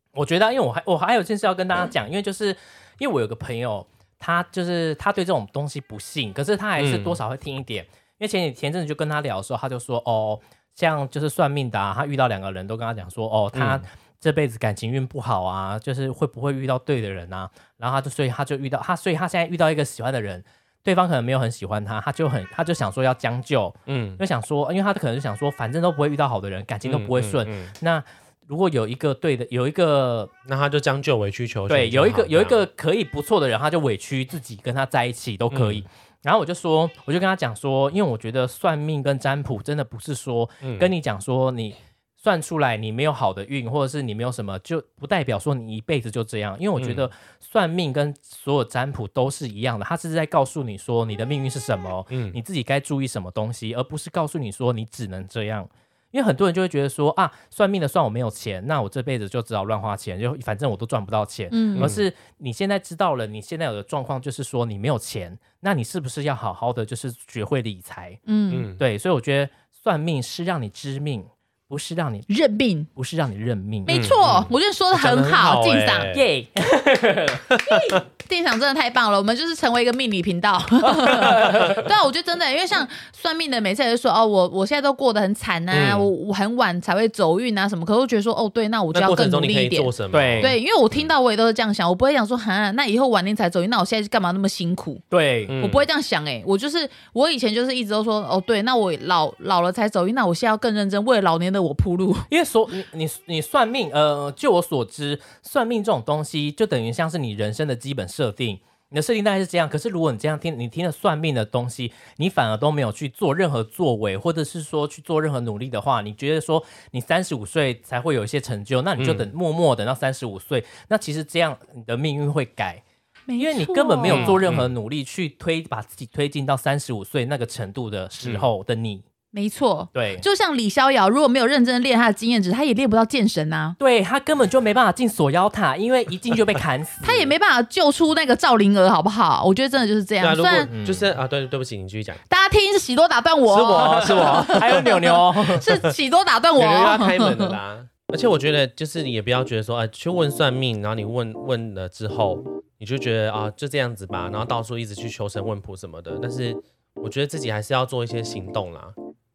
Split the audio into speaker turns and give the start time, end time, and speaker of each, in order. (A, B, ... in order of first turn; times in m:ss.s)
0:00.1-0:30.3 A
0:06.8-0:07.2 B
0:13.5-0:13.8 B
0:23.9-0:24.2 B
0:26.8-0:27.7 B
0:30.4-0:32.6 B
0:31.7-1:08.2 A
0:35.5-0:35.8 B
0:40.6-0:40.9 B
0:46.8-0:47.0 B
0:52.1-0:52.4 B
1:01.5-1:01.9 C
1:01.8-1:02.0 B
1:08.2-1:08.7 C
1:08.5-1:08.8 B
1:08.8-1:12.3 A
1:12.3-1:12.9 C
1:13.0-1:14.1 A
1:13.8-1:16.1 C
1:13.9-1:16.2 B
1:16.1-1:17.6 A
1:17.5-1:18.0 B
1:17.6-1:35.0 C
1:20.9-1:21.8 A
1:21.4-1:21.7 B
1:25.7-1:26.1 B
1:28.9-1:31.1 B
1:30.1-1:30.5 A
1:35.1-1:35.5 A
1:35.5-1:35.9 B
1:35.6-1:42.3 C
1:42.3-2:02.8 A
1:59.0-1:59.3 B
2:03.3-2:04.5 C
2:03.4-2:09.0 A
2:04.1-2:04.7 B
2:09.3-2:13.8 C
2:09.9-2:10.2 A
2:13.8-2:17.2 A
2:17.0-2:20.7 C
2:20.2-2:22.2 B
2:20.7-2:21.1 A
2:22.3-2:27.6 C
2:23.5-2:25.8 B
2:23.8-2:25.7 A
2:26.6-2:38.9 B